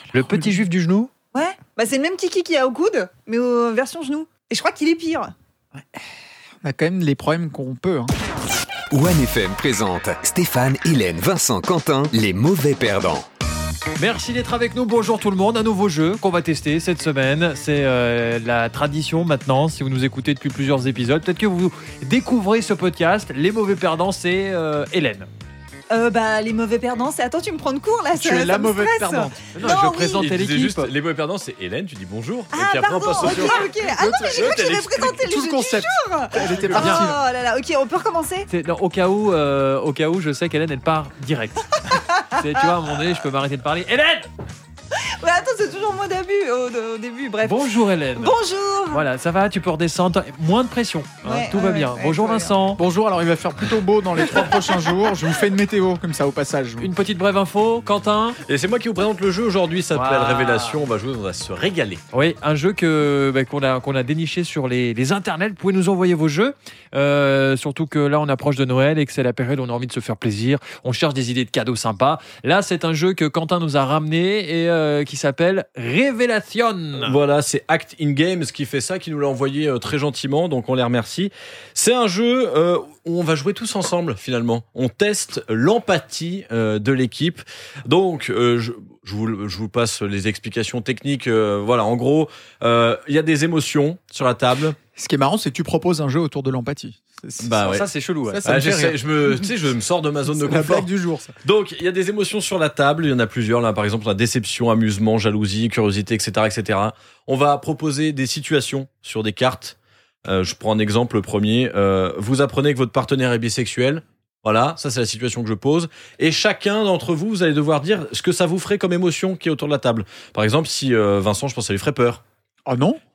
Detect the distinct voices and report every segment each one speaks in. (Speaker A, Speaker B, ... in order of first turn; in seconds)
Speaker A: 0.1-1.1, 14.0-25.3, 29.6-30.9, 36.8-37.1, 38.5-44.3, 47.4-48.4, 48.9-52.8, 56.8-58.4, 59.9-60.8, 62.1-77.2, 97.6-98.6
Speaker B: 0.2-0.4, 6.6-8.1, 28.1-29.4, 33.2-34.6, 35.2-37.2, 52.8-56.9, 95.0-97.7, 98.3-99.0, 100.3-101.3, 122.7-123.0
Speaker C: 1.3-5.3, 25.9-30.2, 32.5-38.5, 41.8-42.3, 45.0-49.0, 51.2-52.6
Speaker D: 8.9-13.3
Speaker E: 29.7-33.6, 34.4-35.2, 36.4-37.0, 58.5-62.0, 77.0-94.8, 97.4-97.9, 98.4-100.9, 101.4-122.2